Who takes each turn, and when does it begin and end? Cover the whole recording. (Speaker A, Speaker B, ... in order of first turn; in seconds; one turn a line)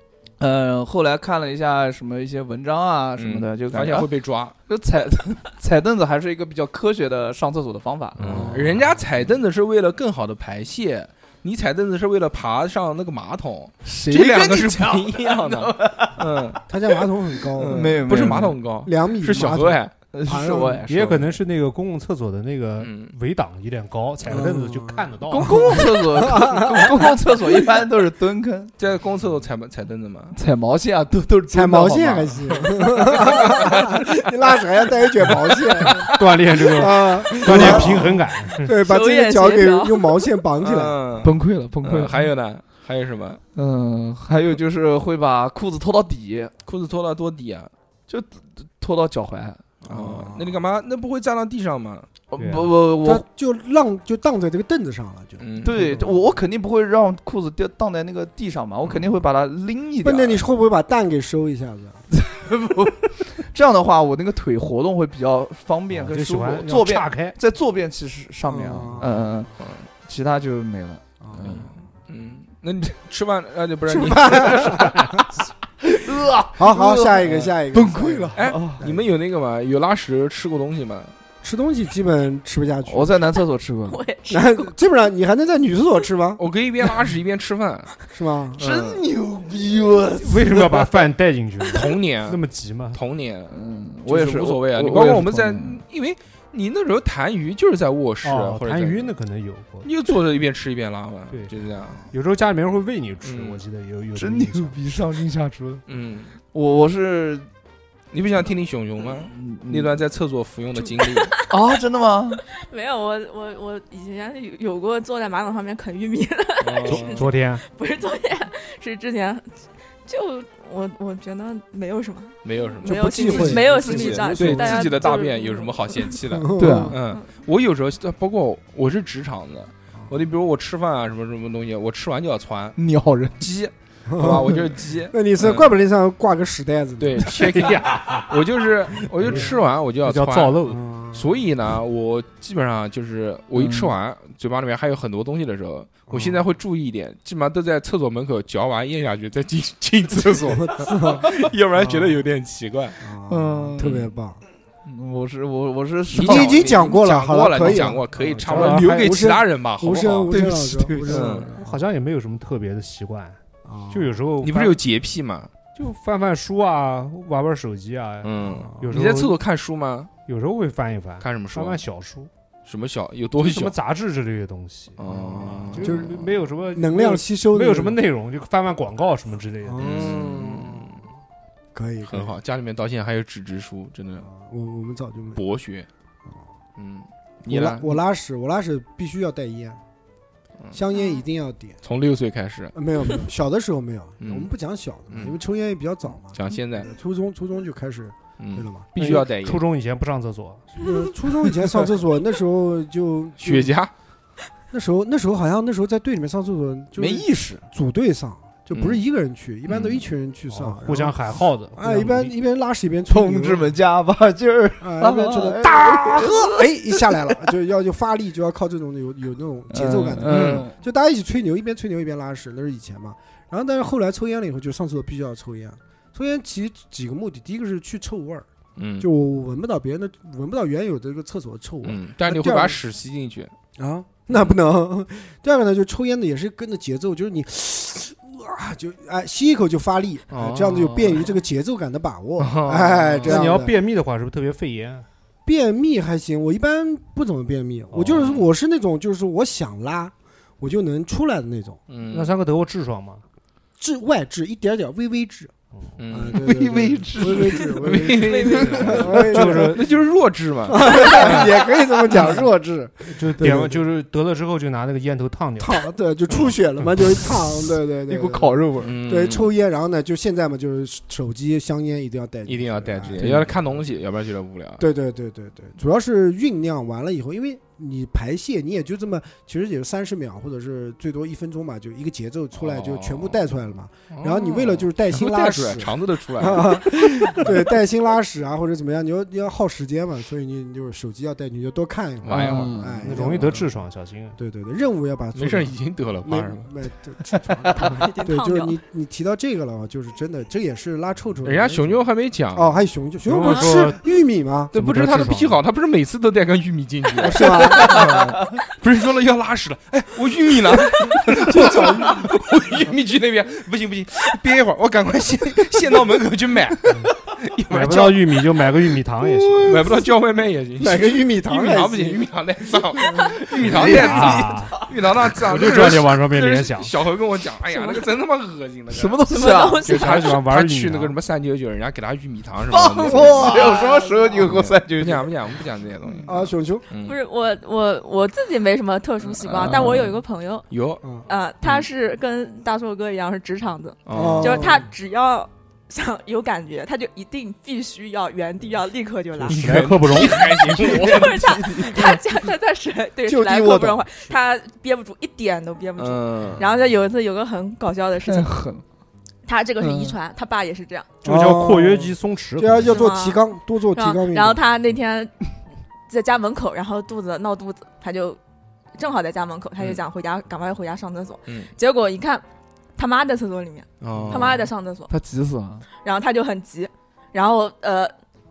Speaker A: 0.4-4.1
Speaker B: 3.2-4.5
Speaker A: 4.7-8.5
Speaker B: 8.2-16.6
Speaker C: 8.2-8.8
Speaker D: 8.2-8.8
Speaker A: 13.8-16.6
Speaker C: 16.7-20.8
Speaker B: 17.6-19.9
Speaker A: 17.6-18.5
Speaker A: 20.1-21.4
Speaker D: 20.9-25.9
Speaker B: 22.8-23.1
Speaker C: 24.3-27.4
Speaker A: 25.3-28.7
Speaker B: 28.8-30.4
Speaker A: 30.3-32.6
Speaker C: 31.5-41.0
Speaker B: 33.2-34.0
Speaker D: 36.0-38.7
Speaker B: 37.5-37.9
Speaker E: 38.8-40.3
Speaker B: 40.6-43.4
Speaker A: 41.2-42.3
Speaker A: 43.5-46.5
Speaker B: 46.7-47.7
Speaker A: 48.1-49.6
Speaker C: 49.8-50.6
Speaker B: 49.8-52.1
Speaker A: 52.3-53.2
Speaker D: 52.4-52.7
Speaker C: 53.0-56.1
Speaker B: 55.4-56.0
Speaker A: 55.6-60.4
Speaker C: 60.0-62.0
Speaker A: 62.1-69.5
Speaker D: 65.9-67.4
Speaker C: 68.5-69.5
Speaker B: 69.6-69.9
Speaker A: 70.0-71.7
Speaker C: 71.2-71.7
Speaker B: 71.4-75.2
Speaker C: 73.9-75.2
Speaker A: 75.8-78.8
Speaker C: 76.6-79.0
Speaker B: 78.3-81.1
Speaker C: 81.4-83.2
Speaker A: 82.9-84.0
Speaker E: 83.9-84.7
Speaker C: 84.3-86.4
Speaker B: 86.4-87.9
Speaker C: 88.1-88.6
Speaker A: 88.6-90.9
Speaker B: 88.6-89.0
Speaker D: 90.2-93.0
Speaker B: 91.7-92.4
Speaker B: 92.9-99.1
Speaker A: 93.5-95.8
Speaker D: 98.2-99.9
Speaker B: 99.8-102.1
Speaker D: 102.1-104.8
Speaker B: 103.2-103.6
Speaker A: 104.2-105.8
Speaker B: 105.9-106.3
Speaker A: 106.4-107.5
Speaker B: 108.1-111.3
Speaker A: 109.3-109.9
Speaker A: 111.5-112.4
Speaker E: 112.6-119.5
Speaker B: 116.6-117.2
Speaker D: 116.9-117.6
Speaker E: 120.0-126.2
Speaker B: 122.5-132.8
Speaker C: 122.8-125.1
Speaker C: 126.2-127.0
Speaker A: 126.6-127.0
Speaker A: 132.8-133.4
Speaker B: 133.4-135.7
Speaker C: 134.1-137.4
Speaker B: 137.0-140.6
Speaker D: 137.2-138.5
Speaker D: 139.0-140.8
Speaker C: 139.2-139.5
Speaker C: 140.7-141.3
Speaker B: 141.1-153.0
Speaker A: 143.6-143.9
Speaker C: 146.1-146.4
Speaker C: 150.2-152.2
Speaker C: 153.0-154.4
Speaker A: 153.3-153.9
Speaker B: 153.8-154.1
Speaker A: 154.8-156.7
Speaker B: 156.1-160.4
Speaker C: 156.2-161.8
Speaker D: 157.6-159.3
Speaker A: 160.3-161.2
Speaker B: 161.1-161.5
Speaker D: 161.6-163.4
Speaker C: 163.7-164.2
Speaker D: 163.9-164.8
Speaker B: 164.4-165.5
Speaker D: 165.8-169.4
Speaker B: 168.2-170.1
Speaker C: 168.5-168.9
Speaker D: 170.3-172.3
Speaker B: 171.2-171.8
Speaker B: 172.7-173.8
Speaker D: 173.4-180.2
Speaker B: 175.0-176.1
Speaker C: 175.1-178.0
Speaker C: 179.6-181.0
Speaker B: 179.8-181.0
Speaker C: 181.8-182.3
Speaker B: 182.0-184.3
Speaker C: 184.2-185.4
Speaker B: 185.4-185.9
Speaker B: 186.8-188.0
Speaker C: 187.5-189.8
Speaker C: 190.7-191.8
Speaker E: 190.9-191.2
Speaker B: 191.8-192.8
Speaker C: 192.8-199.2
Speaker B: 194.2-194.5
Speaker B: 195.1-195.4
Speaker B: 196.3-196.9
Speaker B: 198.4-199.6
Speaker D: 199.0-200.8
Speaker C: 200.8-203.7
Speaker B: 203.4-203.9
Speaker C: 204.7-213.7
Speaker A: 207.0-207.7
Speaker B: 208.7-209.0
Speaker B: 209.7-210.0
Speaker D: 210.5-212.3
Speaker A: 213.1-217.2
Speaker C: 214.8-228.5
Speaker A: 219.7-220.8
Speaker B: 220.3-220.7
Speaker B: 228.8-229.1
Speaker C: 229.0-232.8
Speaker B: 231.8-233.5
Speaker C: 233.8-243.8
Speaker B: 240.3-241.3
Speaker B: 242.4-243.5
Speaker D: 243.2-245.1
Speaker C: 245.4-251.8
Speaker D: 247.9-248.3
Speaker B: 248.1-248.5
Speaker B: 251.9-252.4
Speaker D: 252.1-253.2
Speaker C: 253.8-255.5
Speaker B: 256.0-256.4
Speaker C: 256.1-259.9
Speaker A: 256.3-259.0
Speaker B: 257.2-261.5
Speaker D: 258.9-259.9
Speaker C: 260.7-263.8
Speaker A: 260.9-261.4
Speaker D: 263.1-265.8
Speaker C: 265.6-273.4
Speaker A: 268.1-268.9
Speaker B: 268.8-269.5
Speaker B: 272.4-274.8
Speaker A: 273.2-273.5
Speaker C: 274.8-293.8
Speaker B: 282.6-283.5
Speaker B: 284.1-287.6
Speaker B: 292.2-292.8
Speaker A: 292.3-293.2
Speaker D: 293.0-294.4
Speaker C: 294.4-295.7
Speaker B: 295.3-296.7
Speaker C: 296.2-304.7
Speaker E: 297.8-298.8
Speaker B: 301.4-302.8
Speaker D: 303.3-304.0
Speaker D: 304.7-305.6
Speaker B: 304.7-318.6
Speaker C: 307.2-308.2
Speaker C: 311.1-312.3
Speaker D: 317.7-319.9
Speaker B: 319.6-337.2
Speaker C: 320.8-322.2
Speaker D: 323.6-326.9
Speaker C: 323.7-324.1
Speaker A: 323.7-324.9
Speaker E: 327.7-328.1
Speaker A: 328.9-330.1
Speaker E: 329.3-330.2
Speaker D: 329.9-331.2
Speaker A: 332.7-335.3
Speaker C: 333.1-333.8
Speaker E: 333.5-333.8
Speaker C: 336.3-336.9
Speaker E: 337.0-340.7
Speaker B: 339.2-340.1
Speaker B: 340.7-341.9
Speaker E: 341.2-358.5
Speaker B: 344.1-344.8
Speaker C: 344.1-344.9
Speaker D: 349.4-350.5
Speaker B: 349.5-351.5
Speaker A: 350.9-352.2
Speaker C: 353.3-354.1
Speaker B: 356.0-356.7
Speaker A: 358.2-358.8
Speaker E: 359.4-361.2
Speaker A: 359.8-360.2
Speaker D: 361.2-363.0
Speaker C: 361.2-364.6
Speaker E: 362.9-365.3
Speaker E: 366.1-368.4
Speaker E: 368.9-372.4
Speaker E: 373.0-375.1
Speaker B: 374.0-374.7
Speaker C: 374.2-374.5
Speaker A: 375.1-375.9
Speaker E: 376.0-378.1